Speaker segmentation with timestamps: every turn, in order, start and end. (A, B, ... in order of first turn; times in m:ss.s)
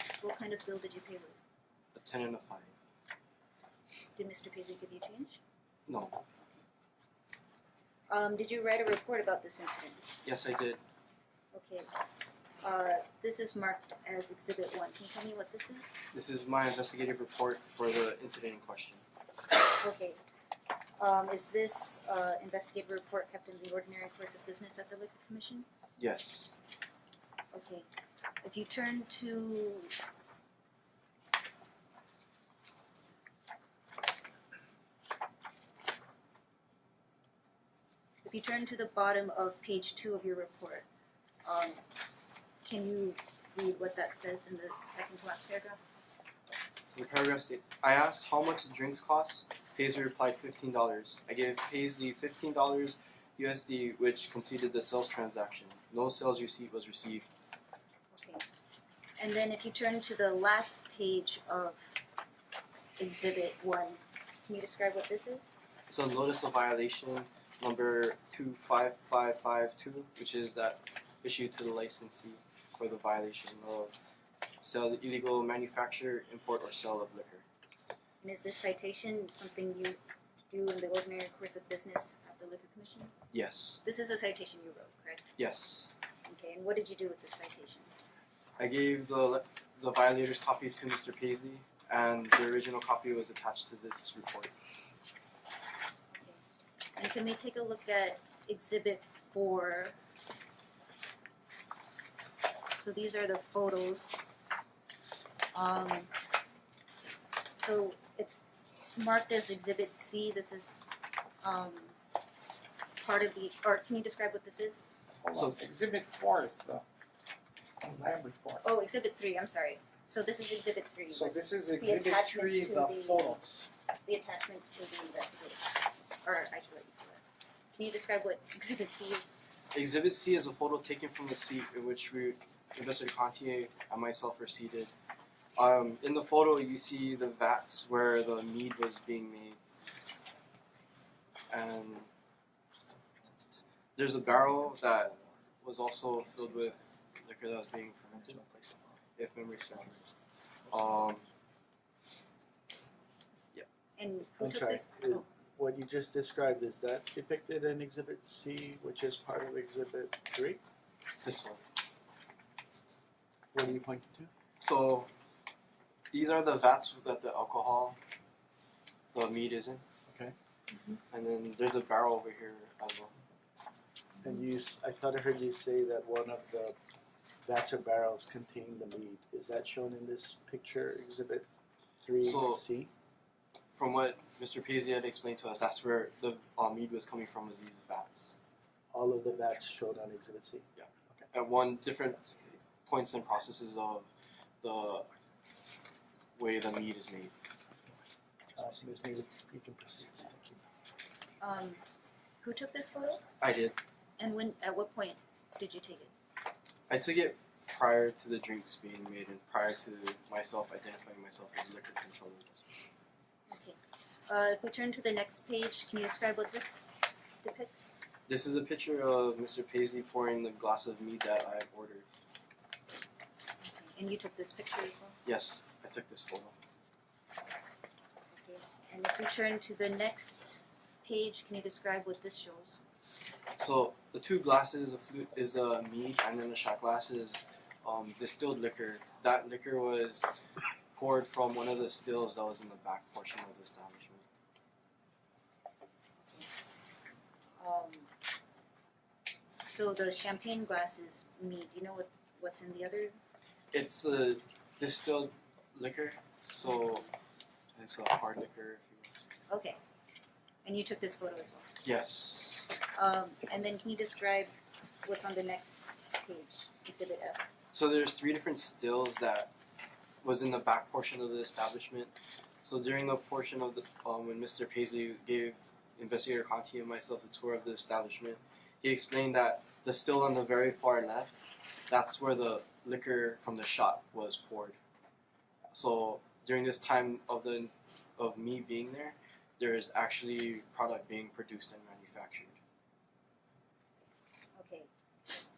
0:00.2-0:01.4 A
0:01.9-0:02.7 B
0:04.2-0:05.4 A
0:05.9-0:06.2 B
0:08.1-0:10.1 A
0:10.2-0:10.8 B
0:11.5-0:11.9 A
0:12.6-0:16.0 A
0:16.1-0:19.0 B
0:19.8-0:20.2 A
0:21.0-0:25.7 A
0:26.0-0:26.5 B
0:27.5-0:27.9 A
0:28.4-0:29.9 A
0:38.2-0:40.8 A
0:41.4-0:41.8 A
0:42.6-0:45.8 A
0:46.9-0:57.3 B
0:58.1-0:58.4 A
0:59.2-1:01.8 A
1:03.0-1:05.5 A
1:05.9-1:13.9 B
1:14.6-1:17.4 B
1:18.2-1:23.1 A
1:23.3-1:23.8 B
1:23.8-1:25.3 A
1:25.4-1:25.9 B
1:26.2-1:27.9 A
1:28.6-1:34.5 B
1:36.1-1:36.4 A
1:37.0-1:39.9 A
1:42.8-1:44.2 A
1:45.5-1:46.1 A
1:47.6-1:50.7 A
1:51.4-1:51.9 A
1:53.0-1:54.8 A
1:55.2-1:56.8 C
1:57.8-1:58.7 C
1:58.6-2:03.4 A
2:01.1-2:03.6 C
2:04.0-2:07.2 A
2:07.7-2:09.4 A
2:09.7-2:14.9 B
2:15.6-2:19.6 B
2:21.5-2:22.1 B
2:24.0-2:28.5 B
2:29.2-2:30.0 B
2:30.7-2:31.2 B
2:34.0-2:35.2 A
2:34.4-2:40.6 D
2:41.2-2:41.6 B
2:43.5-2:44.3 D
2:44.6-2:45.1 B
2:46.1-2:48.0 B
2:49.1-2:49.8 B
2:50.1-2:50.3 D
2:50.7-2:51.0 A
2:51.1-2:53.1 B
2:54.2-2:56.8 D
2:57.4-3:01.4 D
3:02.0-3:02.9 D
3:02.2-3:02.6 B
3:03.7-3:08.3 B
3:08.9-3:11.2 D
3:10.8-3:14.1 B
3:14.6-3:15.1 B
3:16.4-3:17.3 B
3:18.6-3:20.6 D
3:21.4-3:21.8 A
3:22.4-3:23.2 A
3:23.4-3:23.8 B
3:24.2-3:26.1 A
3:26.9-3:32.6 B
3:33.5-3:36.9 A
3:37.4-3:37.9 A
3:38.3-3:42.0 B
3:43.6-3:45.2 A
3:45.2-3:46.5 B
3:48.3-3:52.8 A
3:53.6-4:00.4 B
4:00.9-4:04.2 B
4:07.6-4:08.1 A
4:09.7-4:13.2 A
4:13.7-4:17.0 B
4:17.8-4:19.1 B
4:19.5-4:19.8 A
4:20.6-4:21.7 A
4:21.8-4:22.6 B
4:22.9-4:24.5 A
4:25.0-4:27.4 A
4:27.7-4:29.5 B
4:30.2-4:41.3 B
4:41.9-4:44.8 B
4:45.7-4:52.6 B
4:54.6-4:54.9 A